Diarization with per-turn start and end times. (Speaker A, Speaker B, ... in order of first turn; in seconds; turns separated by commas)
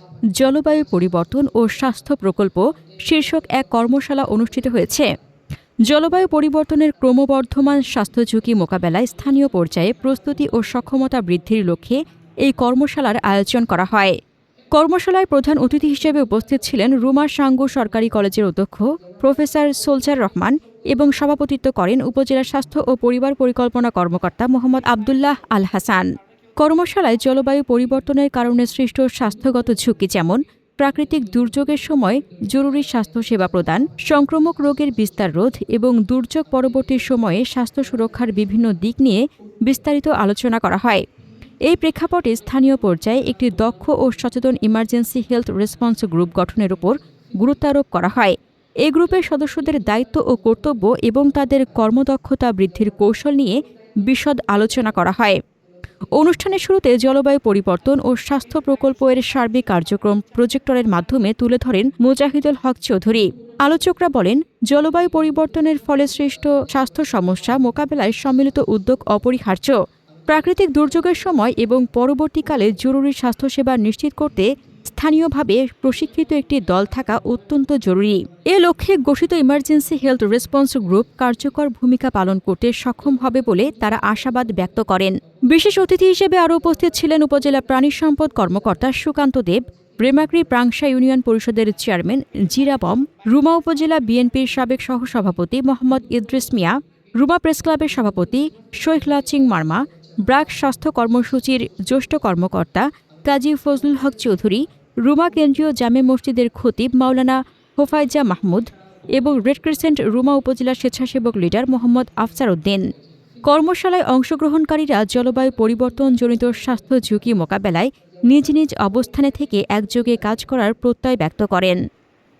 Speaker A: 0.4-5.1, Speaker A: 5.9-14.1, Speaker A: 14.8-26.1, Speaker A: 26.6-41.0, Speaker A: 41.7-55.4, Speaker A: 56.2-69.8, Speaker A: 70.3-112.8, Speaker A: 113.5-121.8